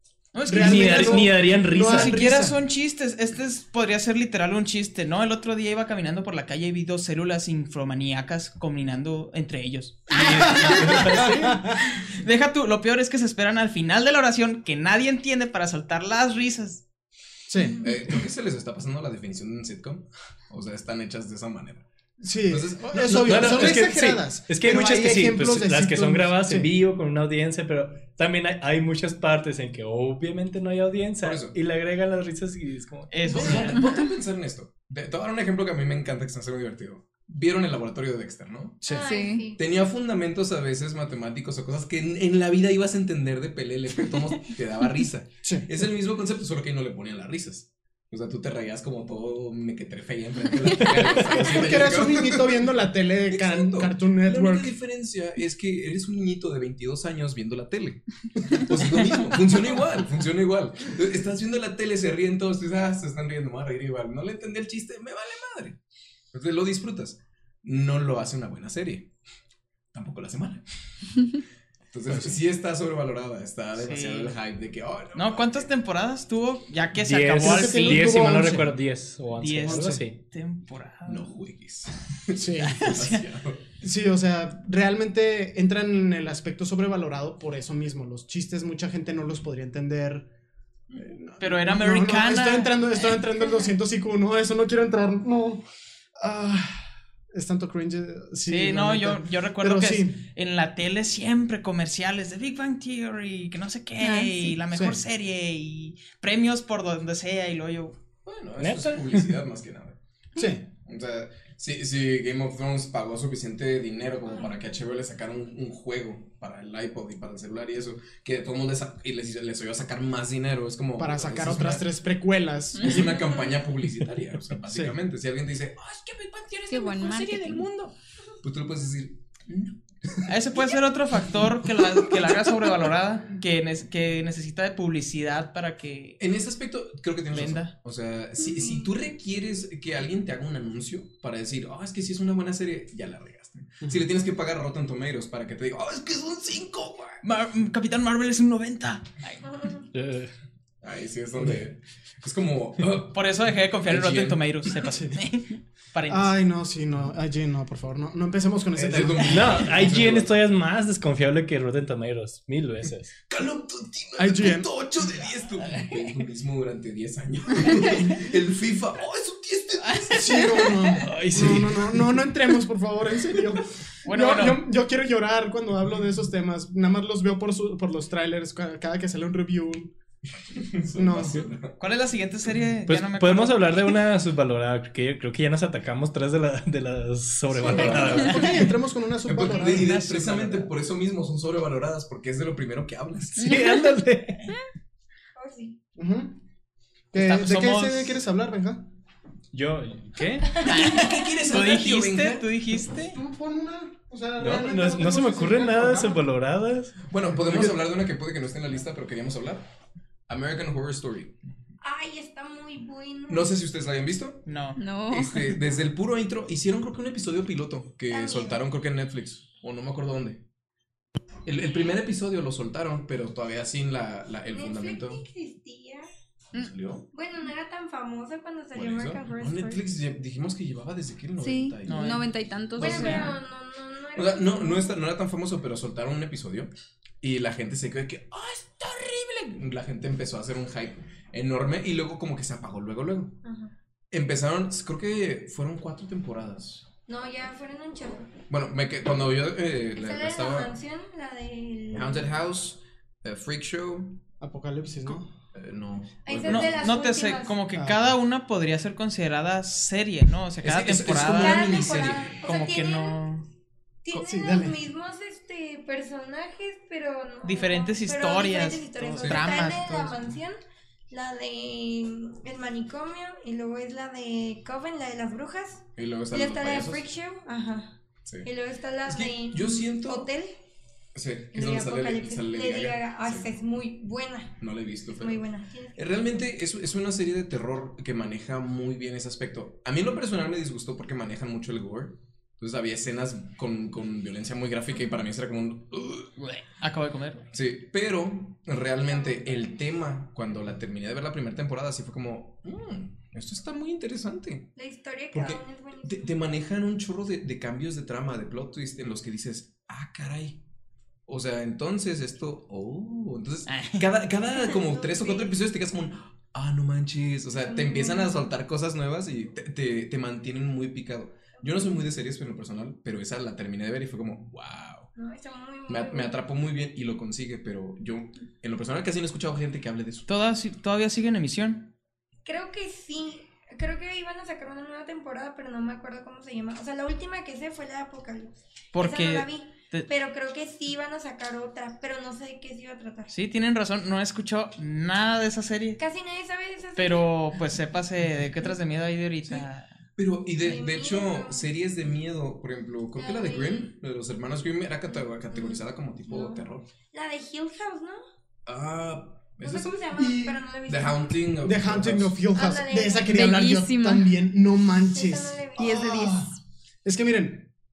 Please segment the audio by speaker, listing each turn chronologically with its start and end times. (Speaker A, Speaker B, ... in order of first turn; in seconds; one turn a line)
Speaker A: 0.3-16.8
Speaker B: 0.5-2.6
Speaker C: 0.5-2.2
Speaker C: 10.1-11.7
Speaker B: 10.5-11.8
Speaker B: 17.5-17.8
Speaker D: 17.8-21.8
Speaker B: 22.2-26.7
Speaker D: 22.5-23.9
Speaker C: 23.1-33.6
Speaker D: 31.2-31.6
Speaker A: 33.1-33.8
Speaker D: 33.3-38.9
Speaker B: 33.3-33.7
Speaker B: 38.8-39.1
Speaker E: 38.9-39.6
Speaker F: 39.0-39.5
Speaker D: 39.6-52.7
Speaker C: 50.9-51.5
Speaker B: 51.2-54.7
Speaker D: 53.3-65.8
Speaker D: 66.3-69.1
Speaker D: 69.9-70.6
Speaker D: 71.9-75.7
Speaker A: 73.8-74.3
Speaker A: 75.1-78.6
Speaker C: 77.0-80.2
Speaker B: 77.4-78.7
Speaker A: 79.4-81.3
Speaker B: 79.6-80.0
Speaker D: 81.0-83.6
Speaker B: 82.3-82.8
Speaker A: 82.6-83.2
Speaker B: 83.8-90.3
Speaker B: 90.9-95.6
Speaker A: 91.4-93.3
Speaker B: 96.2-100.2
Speaker A: 98.5-108.0
Speaker F: 104.0-104.5
Speaker B: 104.7-105.0
Speaker D: 108.2-110.0
Speaker C: 108.6-109.3
Speaker B: 110.3-110.7
Speaker D: 110.8-121.9
Speaker B: 121.0-123.1
Speaker D: 122.8-130.8
Speaker B: 124.7-125.0
Speaker F: 126.7-127.7
Speaker A: 130.2-136.2
Speaker D: 136.2-147.2
Speaker A: 137.3-137.7
Speaker E: 138.4-138.9
Speaker A: 147.2-149.4
Speaker E: 149.4-149.9
Speaker C: 149.9-150.3
Speaker D: 150.8-153.2
Speaker A: 153.1-156.4
Speaker D: 153.8-154.5
Speaker B: 154.8-155.2
Speaker B: 156.1-159.7
Speaker D: 158.8-160.4
Speaker C: 159.2-163.1
Speaker D: 163.2-170.6
Speaker B: 164.2-164.7
Speaker A: 169.8-171.0
Speaker B: 170.1-179.9
Speaker C: 171.0-171.9
Speaker A: 174.0-174.6
Speaker D: 180.5-181.8
Speaker B: 180.9-181.5
Speaker A: 181.8-183.9
Speaker C: 182.9-188.6
Speaker B: 187.5-190.0
Speaker D: 187.6-188.4
Speaker A: 188.1-188.4
Speaker D: 189.2-193.6
Speaker A: 189.4-190.7
Speaker C: 193.3-194.5
Speaker E: 195.3-195.8
Speaker B: 195.9-196.4
Speaker B: 197.1-198.9
Speaker A: 197.1-198.2
Speaker C: 199.5-200.7
Speaker E: 200.4-200.8
Speaker A: 200.5-203.2
Speaker D: 200.6-202.5
Speaker B: 202.9-206.2
Speaker C: 204.4-207.0
Speaker D: 207.1-209.7
Speaker D: 210.3-211.4
Speaker E: 211.8-213.6
Speaker D: 213.3-214.5
Speaker A: 214.4-214.8
Speaker F: 214.8-215.6
Speaker D: 215.1-220.4
Speaker E: 218.1-218.6
Speaker D: 221.4-225.2
Speaker E: 224.5-226.1
Speaker D: 226.5-227.1
Speaker E: 227.1-229.9
Speaker D: 228.7-232.2
Speaker F: 231.4-233.3
Speaker A: 231.8-232.3
Speaker D: 232.8-233.4
Speaker E: 232.8-234.9
Speaker A: 232.8-233.2
Speaker D: 234.1-243.4
Speaker E: 243.4-243.7
Speaker D: 244.1-246.9
Speaker E: 247.1-248.3
Speaker D: 248.4-250.7
Speaker E: 249.9-252.3
Speaker D: 251.9-254.2
Speaker B: 254.4-255.3
Speaker D: 255.5-256.9
Speaker E: 256.2-257.6
Speaker A: 256.4-263.4
Speaker B: 257.7-258.1
Speaker D: 260.6-262.4
Speaker E: 261.3-263.3
Speaker E: 264.0-270.6
Speaker B: 264.1-264.8
Speaker A: 267.4-270.3
Speaker D: 269.2-269.7
Speaker E: 271.1-280.6
Speaker D: 276.0-277.1
Speaker D: 279.1-280.3
Speaker D: 281.1-283.5
Speaker E: 281.5-284.6
Speaker D: 284.6-285.4
Speaker E: 285.2-286.3
Speaker D: 285.9-296.3
Speaker A: 296.4-297.4
Speaker D: 297.5-304.7
Speaker E: 299.1-299.8
Speaker E: 304.8-306.5
Speaker D: 305.3-310.6
Speaker D: 311.3-325.1
Speaker A: 313.7-314.1
Speaker E: 314.5-315.5
Speaker E: 317.6-318.5
Speaker E: 321.6-322.0
Speaker E: 325.1-326.4
Speaker D: 325.9-330.3
Speaker A: 330.3-331.9
Speaker E: 332.4-343.3
Speaker A: 338.9-340.1
Speaker A: 343.3-346.0
Speaker E: 346.0-347.3
Speaker A: 346.9-349.9
Speaker D: 349.4-356.9
Speaker E: 350.6-351.7
Speaker E: 353.1-353.9
Speaker E: 355.1-358.2
Speaker D: 358.6-360.0
Speaker E: 359.6-361.4
Speaker B: 360.1-360.6
Speaker D: 360.8-362.4
Speaker B: 361.6-367.7
Speaker E: 362.5-363.4
Speaker F: 363.2-364.3
Speaker E: 365.1-366.1
Speaker F: 365.8-366.5